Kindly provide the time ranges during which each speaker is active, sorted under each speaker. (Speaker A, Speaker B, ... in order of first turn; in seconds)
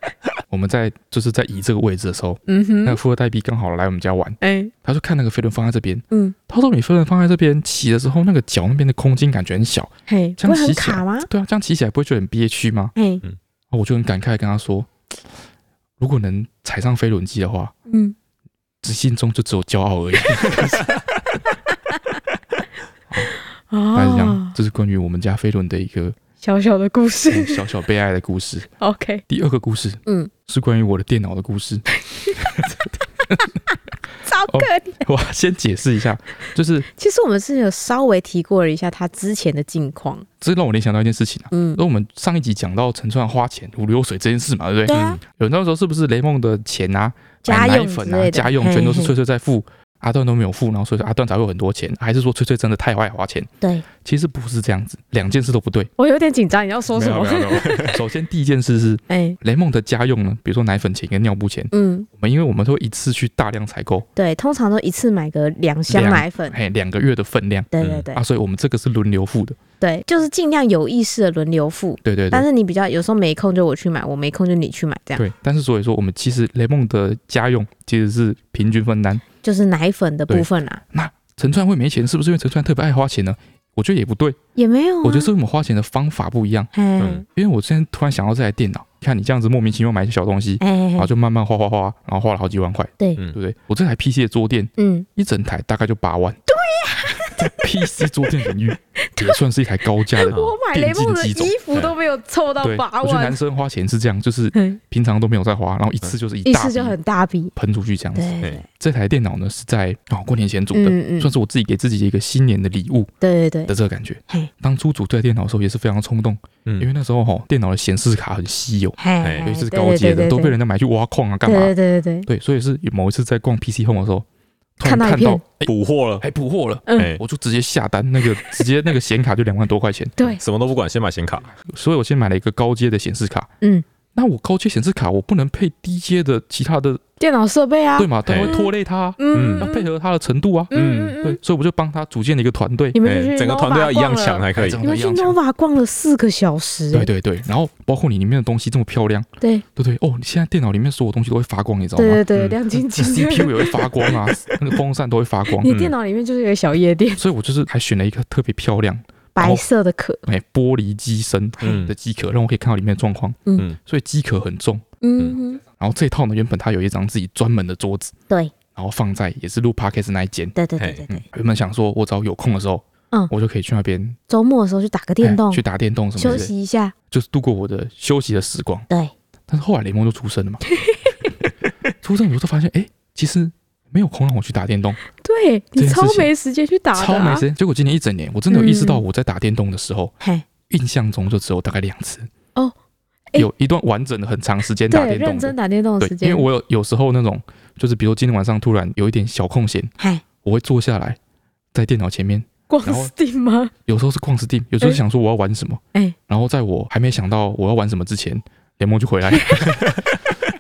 Speaker A: 0.5-12.9, 13.7-14.9, 16.0-17.7, 18.8-20.9, 23.9-26.2, 27.3-28.7, 29.3-31.9, 32.4-33.6, 34.5-36.9, 40.4-55.9, 56.9-64.1, 65.9-69.6, 72.0-72.5, 75.2-79.3, 80.3-84.4, 85.0-86.7, 87.2-96.4, 97.3-101.5, 102.6-107.0, 107.6-113.1, 113.7-121.7, 122.3-124.3, 124.8-130.2, 131.7-133.5, 134.2-137.0, 138.0-143.0, 144.6-145.4, 146.9-155.7, 157.2-159.7, 160.3-164.8, 165.8-168.2, 168.8-170.6, 171.1-174.2, 175.2-176.5, 177.1-178.9, 179.5-180.6, 182.0-185.0, 185.8-186.3, 186.9-190.2, 190.7-192.3, 193.3-199.9, 200.4-201.2, 201.7-203.1, 203.9-210.0
Speaker B: 2.5-3.0, 4.4-4.7, 10.1-11.3, 13.0-13.2, 17.9-18.1, 23.7-24.6, 26.4-27.6, 28.8-29.2, 30.1-30.3, 32.1-32.6, 33.7-35.0, 36.9-40.3, 41.5-41.8, 44.9-45.2, 47.4-49.1, 56.0-58.0, 59.1-59.4, 61.7-62.1, 64.2-66.6, 67.7-68.2, 69.8-75.2, 79.4-80.8, 84.6-85.3, 86.7-87.2, 90.6-91.1, 94.8-95.1, 96.5-97.7, 99.0-99.4, 100.1-103.4, 104.5-104.8, 106.5-107.5, 108.2-108.7, 110.7-111.3, 113.2-113.7, 119.0-120.6, 121.5-122.3, 124.8-125.4, 126.9-127.1, 137.2-139.9, 140.7-141.4, 142.9-147.1, 152.0-154.3, 155.6-157.2, 159.3-160.2, 165.0-165.6, 170.6-171.2, 174.3-175.6, 176.2-176.9, 180.7-181.3, 185.2-187.5, 188.5-189.0, 190.2-190.5, 194.9-196.5, 202.7-203.7, 209.4-209.7
Speaker C: 57.6-57.9, 67.8-68.1, 87.0-87.2, 119.2-119.5, 125.7-126.2, 130.3-131.5, 138.3-138.6, 139.3-139.7, 140.7-141.2, 143.0-144.8, 155.7-155.9, 161.6-161.9, 170.8-171.1